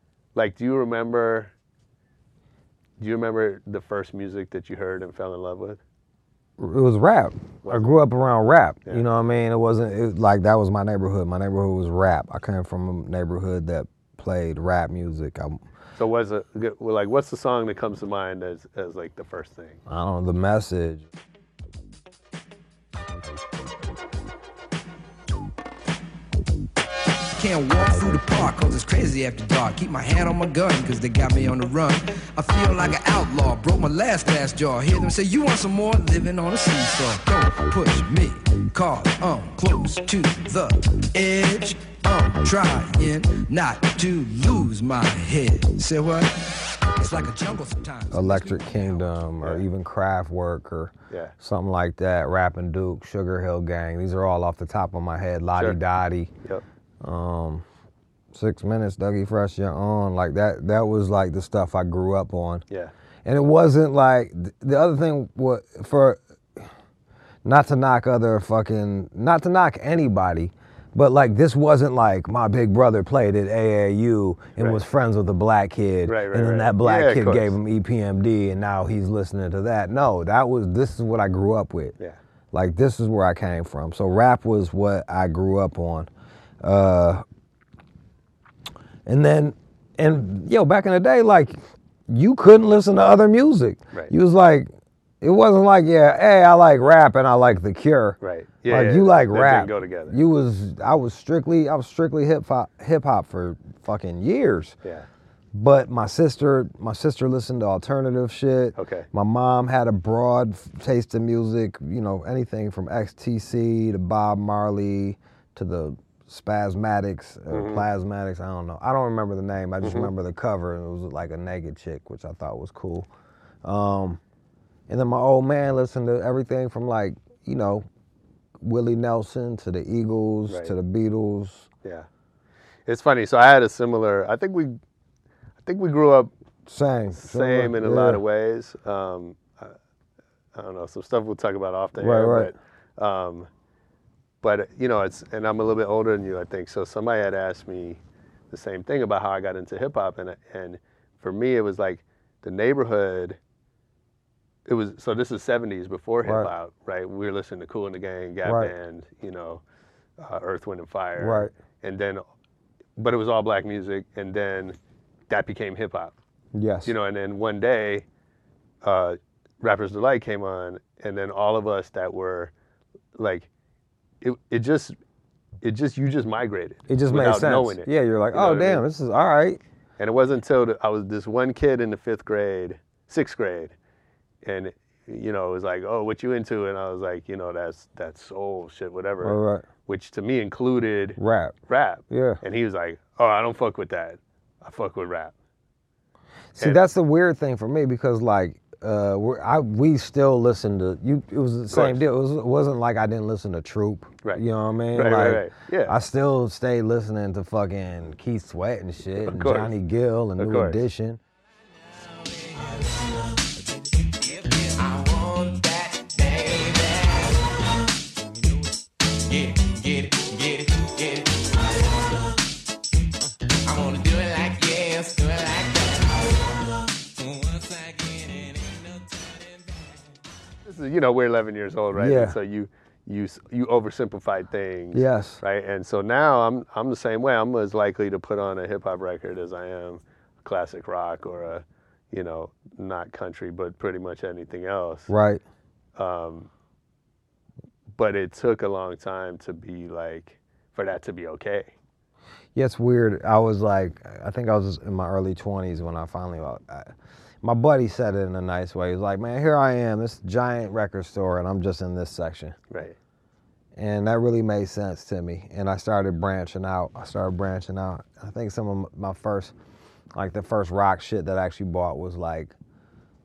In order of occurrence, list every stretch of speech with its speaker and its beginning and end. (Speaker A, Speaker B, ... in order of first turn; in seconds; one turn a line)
Speaker A: 0.3-1.5
Speaker A: 3.0-5.8
Speaker B: 6.6-15.6
Speaker A: 7.6-8.0
Speaker A: 16.0-19.8
Speaker B: 19.9-21.1
Speaker C: 27.4-46.4
Speaker C: 47.0-49.0
Speaker B: 48.1-56.3
Speaker B: 57.0-57.6
Speaker B: 58.3-62.6
Speaker B: 63.2-66.7
Speaker B: 67.4-82.0
Speaker A: 74.6-74.8
Speaker A: 76.1-77.6
Speaker B: 82.5-86.1
Speaker B: 86.6-87.2
Speaker B: 89.1-94.7
Speaker B: 95.2-98.2
Speaker A: 98.2-100.2
Speaker B: 98.7-104.8
Speaker B: 105.5-123.1
Speaker A: 108.8-109.1
Speaker A: 117.5-117.8
Speaker A: 119.8-120.1
Speaker B: 123.6-124.2
Speaker B: 124.9-127.9
Speaker B: 128.6-131.7
Speaker A: 130.5-130.7
Speaker A: 132.9-134.8
Speaker A: 135.6-136.3
Speaker B: 136.7-138.2
Speaker A: 137.1-139.8
Speaker A: 140.6-143.5
Speaker B: 142.0-142.5
Speaker A: 144.4-153.4
Speaker A: 154.7-159.6
Speaker B: 156.2-156.5
Speaker B: 158.4-158.7
Speaker A: 160.2-162.2
Speaker B: 161.2-161.5
Speaker A: 163.0-164.8
Speaker A: 165.3-166.2
Speaker B: 166.5-166.9
Speaker A: 166.8-168.1
Speaker A: 168.8-172.5
Speaker A: 173.2-173.5
Speaker A: 174.2-175.0
Speaker A: 175.6-178.8
Speaker B: 176.9-179.6
Speaker A: 180.0-183.7
Speaker A: 184.4-189.4
Speaker B: 189.2-189.7
Speaker A: 189.9-195.3
Speaker B: 191.2-191.6
Speaker B: 192.1-192.4
Speaker B: 196.6-211.2
Speaker A: 196.6-196.8
Speaker A: 201.7-202.0
Speaker A: 204.2-206.0
Speaker A: 209.2-209.7
Speaker A: 210.4-210.8
Speaker D: 211.9-218.7
Speaker D: 219.2-222.4
Speaker D: 223.7-230.2
Speaker A: 230.7-245.1
Speaker B: 231.9-232.4
Speaker B: 234.9-235.4
Speaker B: 245.1-245.4
Speaker A: 246.0-246.5
Speaker A: 248.0-251.7
Speaker B: 252.6-262.6
Speaker A: 262.7-263.0
Speaker B: 263.8-269.5
Speaker B: 270.1-272.5